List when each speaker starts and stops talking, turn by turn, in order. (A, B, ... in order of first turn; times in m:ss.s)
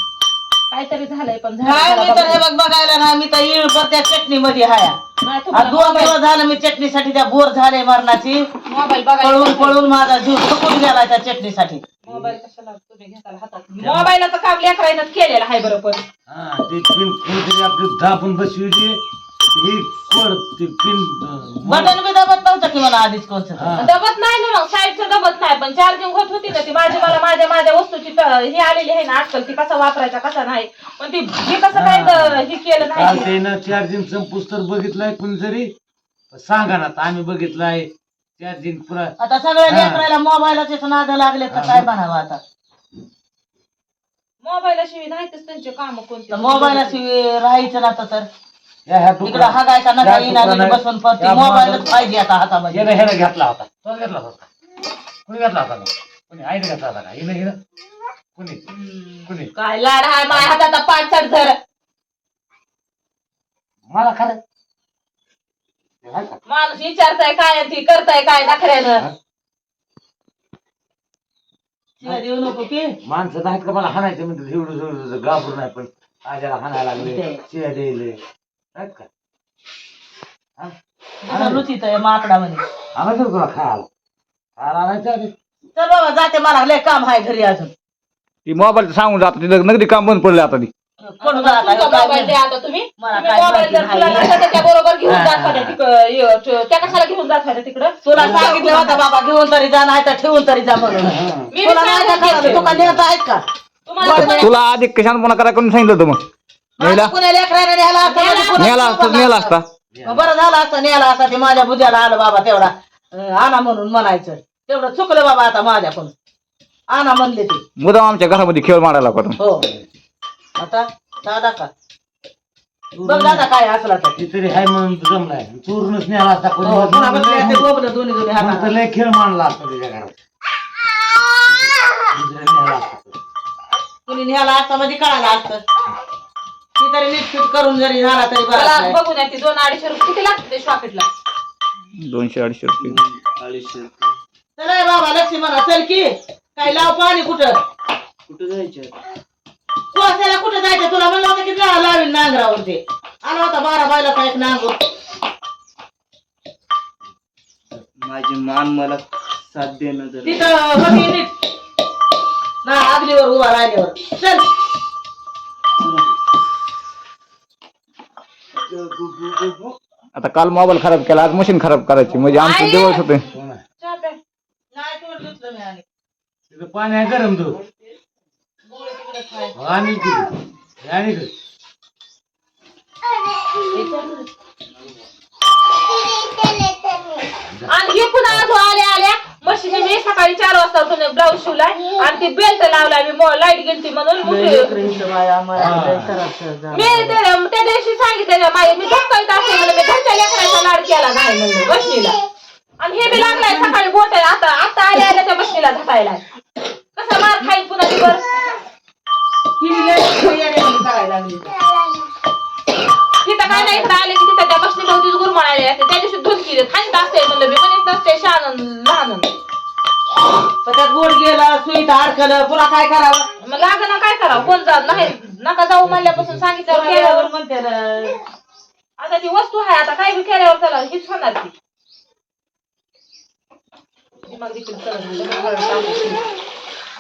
0:00.7-0:02.4 A
0:01.6-0:05.0 B
0:05.2-0:06.2 A
0:05.5-0:08.5 B
0:08.7-0:09.8 A
0:09.2-0:11.8 B
0:12.0-0:16.0 A
0:12.1-0:12.3 C
0:13.8-0:14.1 C
0:16.3-0:19.0 C
0:19.5-0:22.0 C
0:21.6-0:23.9 B
0:23.6-0:23.8 C
0:23.8-0:33.3 A
0:31.7-0:35.7 C
0:36.3-0:39.1 C
0:39.2-0:42.4 B
0:39.7-0:40.0 C
0:41.5-0:41.9 C
0:44.4-0:47.0 A
0:46.3-0:48.3 B
0:48.9-0:52.0 C
0:49.2-0:53.1 B
0:52.7-0:54.5 C
0:55.3-0:57.6 C
0:58.4-0:58.6 C
0:58.7-1:01.6 A
1:03.9-1:04.4 C
1:06.0-1:06.4 C
1:06.5-1:09.0 A
1:12.0-1:12.9 B
1:13.0-1:18.2 C
1:17.0-1:17.4 B
1:18.8-1:19.1 C
1:21.2-1:22.6 B
1:21.3-1:21.6 C
1:23.0-1:23.9 C
1:24.6-1:25.3 C
1:25.8-1:27.7 B
1:28.5-1:30.7 D
1:31.0-1:32.3 B
1:31.2-1:39.0 A
1:33.0-1:34.6 B
1:35.1-1:35.8 C
1:38.0-1:43.4 B
1:38.2-1:38.5 C
1:41.1-1:41.5 C
1:41.5-1:42.7 A
1:42.2-1:43.1 C
1:43.9-1:44.5 A
1:44.0-1:44.5 B
1:44.0-1:46.2 D
1:46.8-1:56.1 B
1:46.8-1:47.1 D
1:48.0-1:48.7 A
1:48.6-1:49.7 D
1:49.9-1:50.3 C
1:56.9-1:57.6 B
1:57.8-1:59.4 D
1:59.4-1:59.6 B
2:00.6-2:01.7 B
2:02.9-2:03.5 C
2:03.0-2:04.2 B
2:04.2-2:07.7 C
2:06.6-2:08.7 B
2:08.4-2:10.2 C
2:11.5-2:13.2 C
2:14.1-2:15.6 B
2:16.8-2:19.0 B
2:18.5-2:21.1 A
2:22.0-2:23.0 D
2:22.8-2:24.1 E
2:24.6-2:27.6 B
2:28.3-2:29.0 E
2:29.9-2:34.8 B
2:38.0-2:40.5 E
2:40.2-2:41.3 B
2:42.6-2:44.4 B
2:50.2-2:53.3 D
2:52.1-2:52.3 C
2:52.3-2:53.1 A
2:53.3-2:53.6 C
2:53.8-2:54.2 A
2:54.7-2:55.8 B
2:56.5-2:57.6 C
2:58.7-2:59.5 B
2:59.5-3:01.3 C
3:03.6-3:04.3 B
3:07.4-3:07.7 C
3:07.7-3:14.8 A
3:14.2-3:17.2 B
3:15.6-3:16.1 C
3:16.7-3:22.2 A
3:22.8-3:26.2 A
3:23.1-3:23.8 B
3:27.0-3:28.3 A
3:29.6-3:31.6 B
3:33.2-3:39.3 A
3:33.4-3:34.0 B
3:40.6-3:43.2 B
3:43.4-3:47.3 A
3:46.7-3:48.2 B
3:49.0-3:51.5 A
3:54.3-3:56.2 A